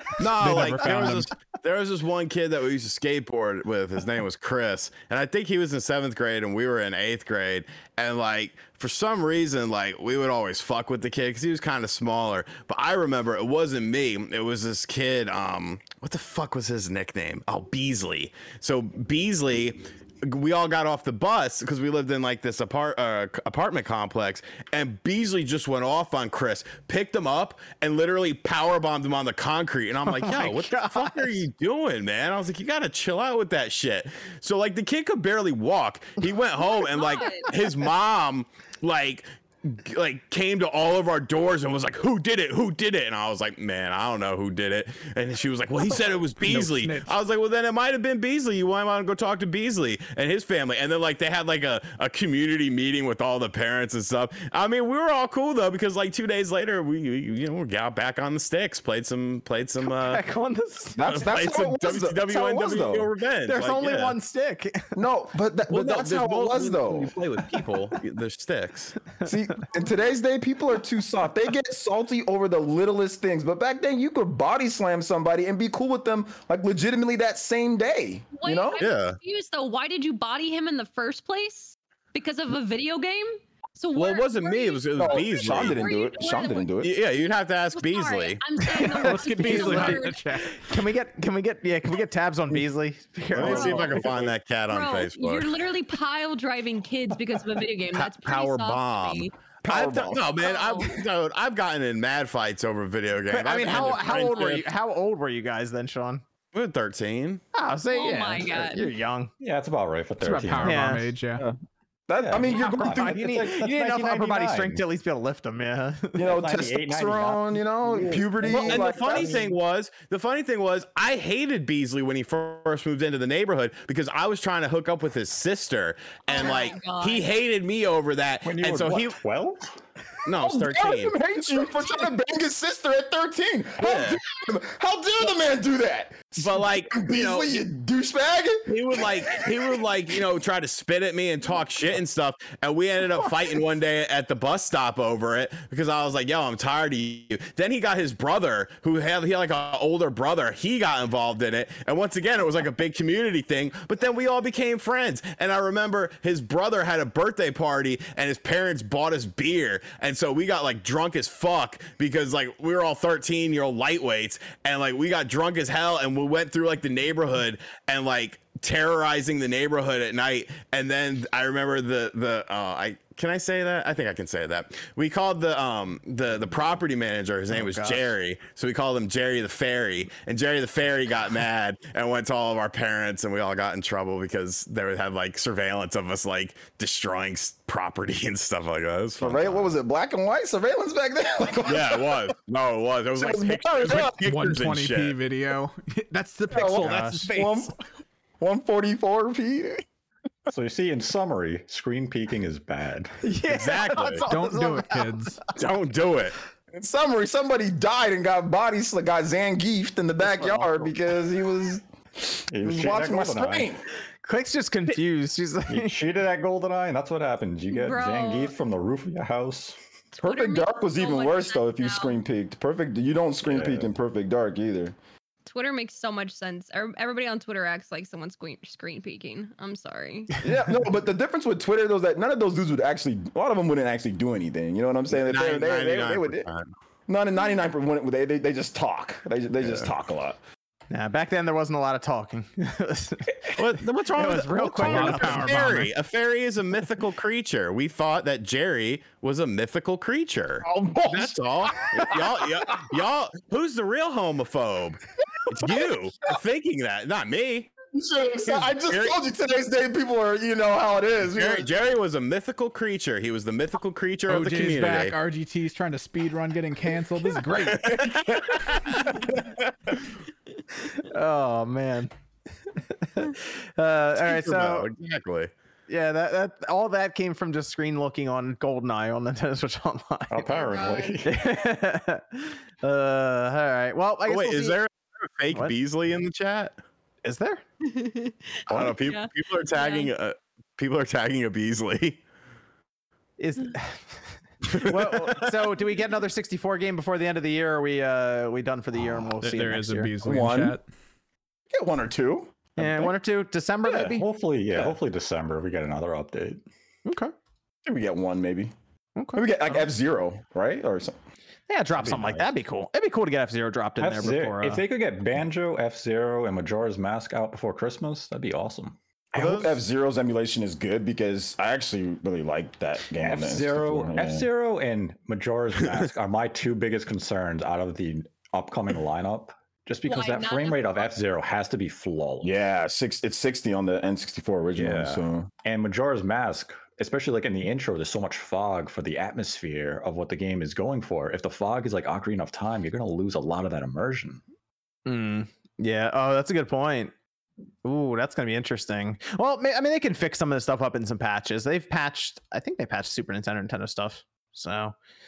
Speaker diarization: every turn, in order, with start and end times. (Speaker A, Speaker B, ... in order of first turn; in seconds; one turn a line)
Speaker A: 0.2-60.2
Speaker B: 0.4-1.3
Speaker C: 0.8-1.0
Speaker D: 30.1-31.3
Speaker E: 36.7-37.6
Speaker B: 46.4-47.1
Speaker D: 59.9-61.0
Speaker F: 61.0-63.1
Speaker A: 61.1-64.2
Speaker D: 63.5-65.0
Speaker F: 65.0-67.2
Speaker A: 65.7-69.0
Speaker F: 69.2-78.8
Speaker E: 78.3-86.7
Speaker A: 78.8-79.2
Speaker A: 84.0-85.8
Speaker F: 85.0-86.9
Speaker A: 86.8-88.8
Speaker E: 87.7-90.5
Speaker B: 89.0-90.8
Speaker D: 89.0-94.1
Speaker A: 93.3-95.7
Speaker F: 93.4-94.3
Speaker E: 93.5-93.9
Speaker E: 94.7-99.3
Speaker A: 97.9-104.7
Speaker F: 99.6-100.3
Speaker E: 100.4-101.0
Speaker D: 103.3-106.2
Speaker A: 106.5-107.4
Speaker D: 107.5-109.3
Speaker E: 107.9-108.9
Speaker C: 109.4-110.9
Speaker B: 110.2-111.5
Speaker D: 110.6-111.1
Speaker F: 112.1-113.5
Speaker C: 112.2-114.8
Speaker D: 112.9-116.3
Speaker F: 116.2-119.5
Speaker C: 116.2-119.5
Speaker A: 118.5-129.2
Speaker E: 126.3-127.3
Speaker C: 128.4-129.8
Speaker A: 130.2-131.2
Speaker F: 130.4-139.8
Speaker A: 133.8-134.2
Speaker A: 136.4-137.7
Speaker A: 138.7-189.7
Speaker D: 177.5-178.0
Speaker F: 189.2-192.2
Speaker A: 191.7-195.2
Speaker F: 193.2-194.2
Speaker B: 193.9-197.7
Speaker F: 196.5-197.8
Speaker D: 196.8-197.3
Speaker F: 198.4-199.8
Speaker C: 200.5-203.2
Speaker D: 203.2-205.4
Speaker A: 203.5-204.3
Speaker B: 204.3-205.5
Speaker A: 205.5-206.4
Speaker F: 206.7-211.8
Speaker C: 212.5-213.7
Speaker F: 212.6-213.8
Speaker D: 214.2-216.0
Speaker C: 215.7-219.8
Speaker E: 217.7-218.6
Speaker E: 220.1-222.2
Speaker F: 220.2-224.9
Speaker C: 223.5-223.9
Speaker E: 225.4-230.5
Speaker F: 230.4-236.5
Speaker A: 235.1-236.7
Speaker F: 237.1-240.4
Speaker D: 240.9-245.6
Speaker A: 243.5-257.7
Speaker B: 244.8-245.9
Speaker F: 250.6-252.9
Speaker F: 257.9-261.7
Speaker A: 258.7-259.2
Speaker A: 261.3-265.1
Speaker B: 264.3-268.2
Speaker A: 267.9-268.9
Speaker D: 270.9-272.1
Speaker D: 272.7-274.9
Speaker A: 274.2-275.5
Speaker D: 275.9-280.4
Speaker C: 280.3-281.3
Speaker E: 280.5-281.2
Speaker D: 281.2-284.8
Speaker A: 284.3-286.8
Speaker D: 287.2-287.6
Speaker E: 287.8-290.1
Speaker A: 288.7-292.2
Speaker D: 293.4-300.1
Speaker A: 294.6-295.5
Speaker B: 299.4-300.9
Speaker F: 300.2-300.8
Speaker F: 301.7-303.1
Speaker D: 302.8-304.2
Speaker F: 303.9-304.1
Speaker C: 304.0-306.6
Speaker D: 307.1-307.3
Speaker F: 307.9-308.7
Speaker D: 309.2-309.8
Speaker F: 309.4-311.2
Speaker D: 311.7-314.8
Speaker C: 312.0-312.5
Speaker C: 314.0-319.0
Speaker F: 319.3-324.5
Speaker A: 319.4-319.8
Speaker C: 323.2-332.5
Speaker E: 330.1-331.1
Speaker F: 332.4-335.5
Speaker C: 334.8-344.4
Speaker D: 345.1-347.1
Speaker D: 347.8-355.0